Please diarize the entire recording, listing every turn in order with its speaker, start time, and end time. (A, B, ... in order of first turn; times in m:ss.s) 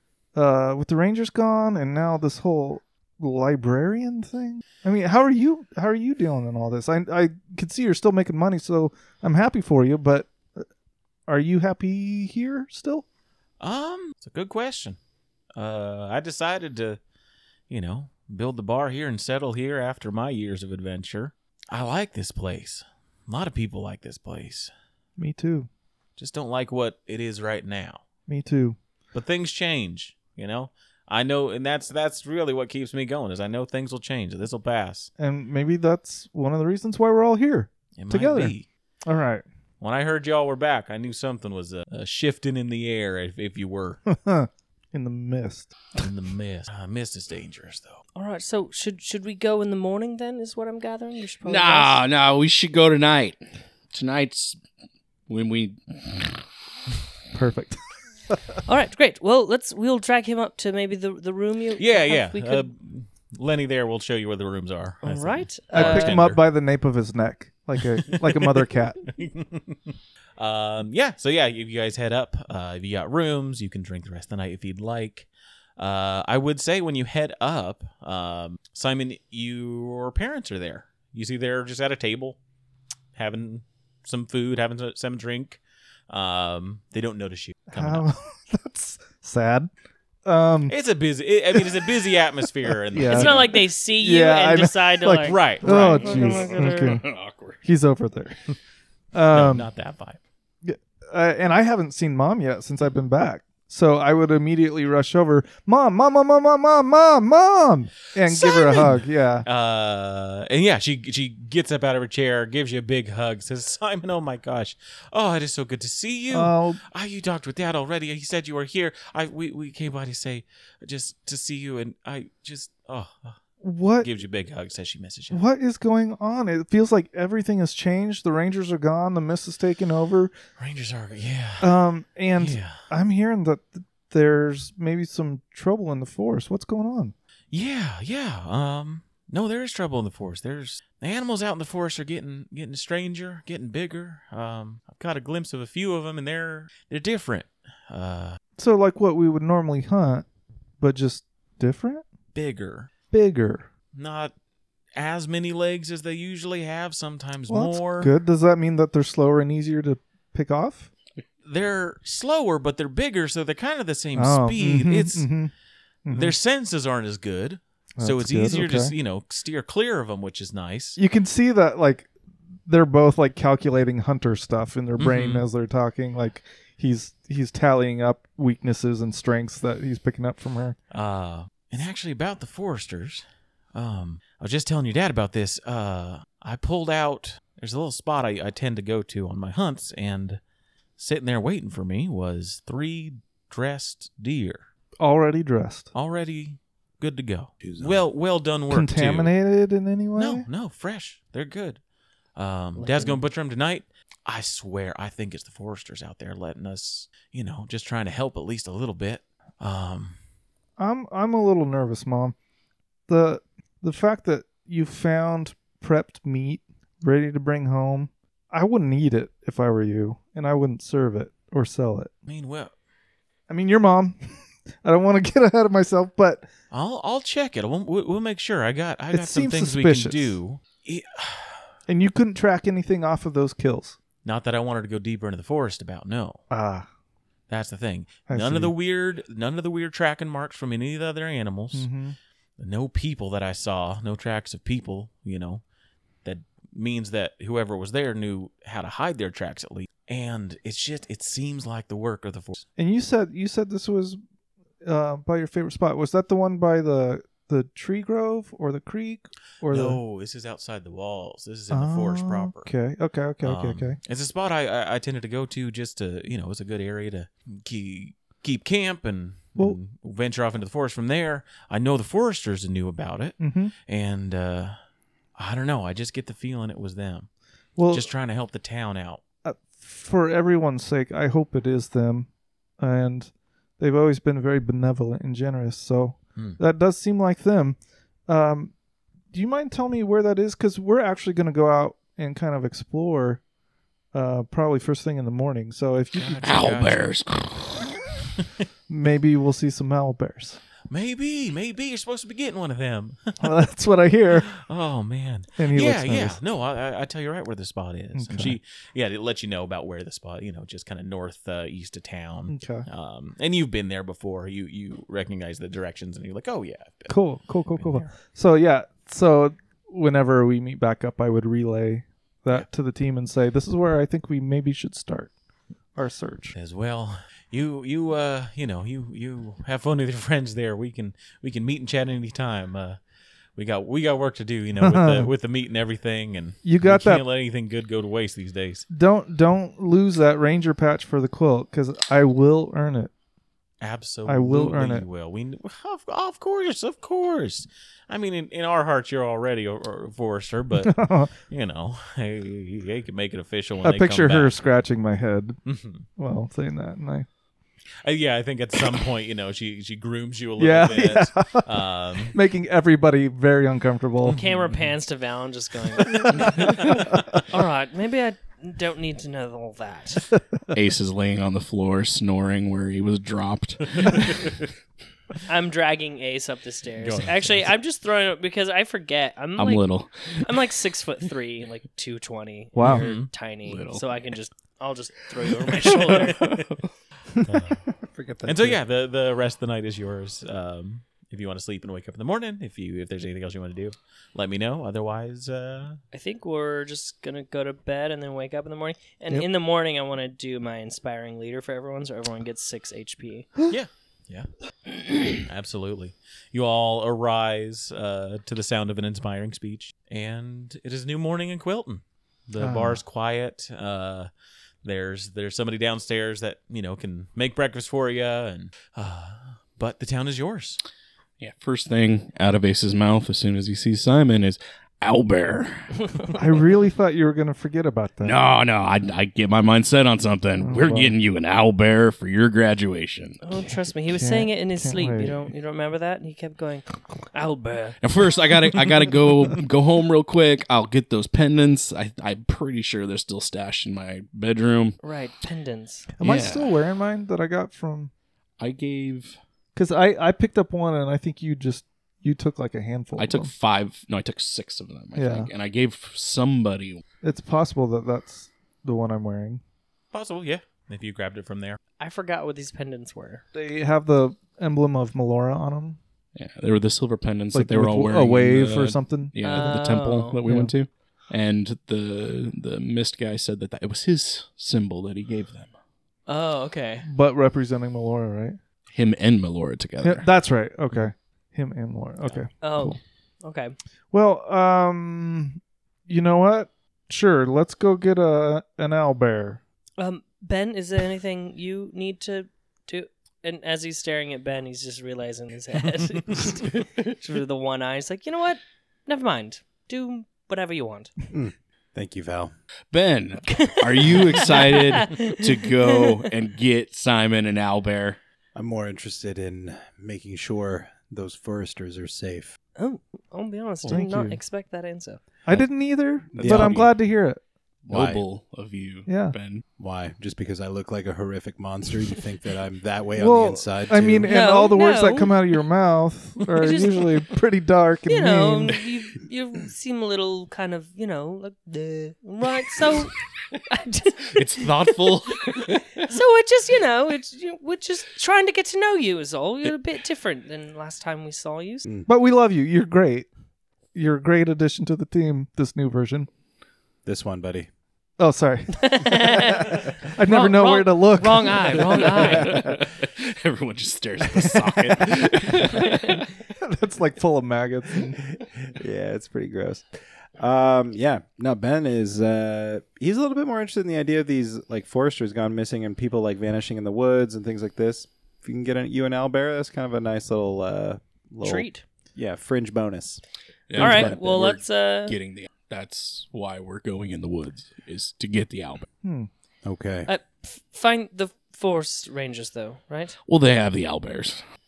0:00.4-0:10.6 A
0:11.3-0:13.0 A
0:13.6-0:15.0 B
0:15.6-0:17.0 B
0:17.7-0:24.7 B
0:25.2-0:25.7 A
0:26.2-0:28.0 B
0:28.3-0:28.8 A
0:29.1-0:35.1 B
0:35.2-0:38.5 A
0:38.0-0:38.6 B
0:39.1-0:39.4 A
0:39.8-0:44.0 B
0:44.1-0:45.7 A
0:46.0-0:48.0 B
0:48.2-0:52.0 C
0:51.4-0:53.4 D
0:53.9-0:54.6 D
0:55.3-0:56.4 D
0:57.3-0:57.8 A
0:58.6-1:02.7 C
1:01.8-1:06.4 B
1:05.0-1:06.2 C
1:05.7-1:09.1 A
1:08.1-1:22.4 B
1:23.1-1:28.1 B
1:27.7-1:29.7 A
1:30.2-1:30.7 A
1:30.7-1:33.6 B
1:31.6-1:31.9 A
1:32.7-1:37.0 A
1:33.0-1:37.0 C
1:35.2-1:36.6 B
1:36.2-1:37.6 D
1:37.6-1:38.4 A
1:39.1-1:39.7 A
1:39.3-1:40.2 B
1:40.6-1:49.4 A
1:48.2-2:03.4 B
1:56.3-1:56.8 A
2:03.6-2:04.1 A
2:04.0-2:05.4 B
2:05.3-2:10.3 A
2:10.6-2:11.7 B
2:11.6-2:17.1 A
2:12.4-2:12.8 B
2:17.5-2:28.4 B
2:28.6-2:30.2 A
2:30.8-2:32.0 A
2:32.3-2:32.9 B
2:33.1-2:33.7 A
2:33.9-2:34.3 B
2:34.9-2:38.1 B
2:37.5-2:40.9 A
2:41.4-2:45.3 B
2:44.2-2:45.5 A
2:46.1-2:46.3 A
2:46.1-2:51.0 B
2:48.0-2:48.9 A
2:51.0-2:52.1 A
2:52.7-3:00.8 A
2:55.0-2:55.5 B
3:00.9-3:10.4 B
3:11.0-3:14.6 B
3:15.0-3:15.9 A
3:15.9-3:19.3 B
3:17.6-3:18.0 E
3:18.7-3:20.4 A
3:20.2-3:21.8 B
3:22.4-3:30.2 B
3:22.8-3:23.2 C
3:30.8-3:32.4 A
3:33.1-3:42.1 A
3:42.3-3:42.7 B
3:43.5-3:44.2 A
3:44.8-3:46.5 A
3:46.7-3:51.6 B
3:49.1-3:50.4 A
3:51.9-3:54.0 A
3:54.2-3:56.4 B
3:56.5-3:56.9 A
3:57.5-4:01.9 B
3:58.3-3:58.7 A
4:01.7-4:02.2 A
4:02.6-4:05.6 B
4:06.2-4:12.6 B
4:12.8-4:14.2 A
4:14.8-4:20.0 A
4:19.7-4:22.7 B
4:21.7-4:24.0 A
4:23.4-4:34.7 B
4:33.4-4:33.7 A
4:35.4-4:37.3 B
4:37.8-4:38.1 A
4:37.9-4:39.2 B
4:39.4-4:42.3 A
4:42.8-4:48.7 A
4:49.3-4:53.4 A
4:54.1-4:56.7 A
4:56.1-4:57.1 B
4:56.4-4:58.0 D
4:58.9-5:00.6 A
5:00.9-5:03.5 B
5:03.4-5:04.6 A
5:04.5-5:17.2 B
5:05.6-5:06.4 A
5:08.1-5:08.6 A
5:12.5-5:12.9 A
5:17.1-5:25.3 A
5:17.7-5:18.1 B
5:26.0-5:26.6 A
5:26.6-5:33.0 B
5:33.6-5:38.8 B
5:34.8-5:35.3 A
5:36.6-5:37.2 A
5:38.9-5:43.1 A
5:43.8-5:51.0 B
5:44.2-5:45.1 A
5:50.8-5:51.3 A
5:51.5-5:54.5 B
5:53.8-5:55.6 A
5:55.6-5:56.0 B
5:56.2-5:57.3 A
5:58.0-6:02.4 B
6:00.6-6:01.7 A
6:02.3-6:04.4 A
6:04.2-6:04.8 B
6:04.3-6:07.0 C
6:07.0-6:07.4 B
6:07.5-6:10.3 C
6:10.7-6:14.6 D
6:14.0-6:14.3 B
6:15.5-6:26.6 C
6:17.0-6:17.7 B
6:19.6-6:20.4 D
6:22.7-6:23.1 A
6:22.8-6:23.3 B
6:23.6-6:24.1 D
6:25.7-6:26.8 D
6:27.4-6:27.8 B
6:28.2-6:28.7 A
6:28.4-6:36.0 B
6:36.1-6:43.5 C
6:43.7-6:44.5 B
6:45.3-6:54.3 B
6:52.6-6:53.0 A
6:54.8-7:00.8 B
7:01.4-7:06.4 D
7:06.3-7:08.4 A
7:08.2-7:13.4 D
7:10.6-7:11.2 A
7:13.4-7:18.0 C
7:14.1-7:15.4 A
7:18.0-7:25.0 D
7:25.0-7:26.1 C
7:26.2-7:28.1 A
7:26.2-7:26.7 D
7:28.6-7:29.4 D
7:29.7-7:33.5 A
7:33.2-7:37.0 D
7:35.1-7:35.5 A
7:37.2-7:39.6 A
7:40.1-7:41.8 B
7:42.0-7:43.4 C
7:43.5-7:46.0 A
7:46.4-7:55.7 D
7:47.5-7:49.6 A
7:49.4-7:50.4 C
7:50.4-7:50.7 A
7:56.3-7:57.1 C
7:57.0-7:58.6 A
7:58.9-8:00.3 D
8:00.0-8:03.0 A
8:02.6-8:03.7 C
8:04.1-8:09.6 A
8:10.0-8:21.1 C
8:21.3-8:22.5 E
8:22.9-8:28.2 D
8:23.5-8:26.3 C
8:28.6-8:32.6 E
8:32.8-8:35.2 C
8:33.8-8:34.4 A
8:35.4-8:37.4 A
8:36.4-8:36.9 E
8:36.4-8:36.9 D
8:37.8-8:39.6 D
8:37.9-8:38.2 E
8:39.1-8:39.4 A
8:39.8-8:44.3 E
8:43.2-8:48.8 A
8:44.3-8:45.4 C
8:46.6-8:47.1 C
8:48.1-8:53.1 C
8:53.7-9:01.9 C
8:54.3-8:56.1 D
9:02.1-9:03.3 A
9:03.9-9:06.3 A
9:07.0-9:07.7 E
9:08.2-9:12.8 A
9:08.8-9:12.6 C
9:12.2-9:16.3 D
9:14.4-9:15.0 A
9:16.6-9:18.2 A
9:18.6-9:33.2 E
9:31.4-9:31.8 C
9:33.7-9:38.9 D
9:33.8-9:35.2 C
9:33.8-9:34.2 E
9:39.0-9:39.3 A
9:39.6-9:40.1 E
9:40.1-9:43.2 C
9:43.3-9:44.4 D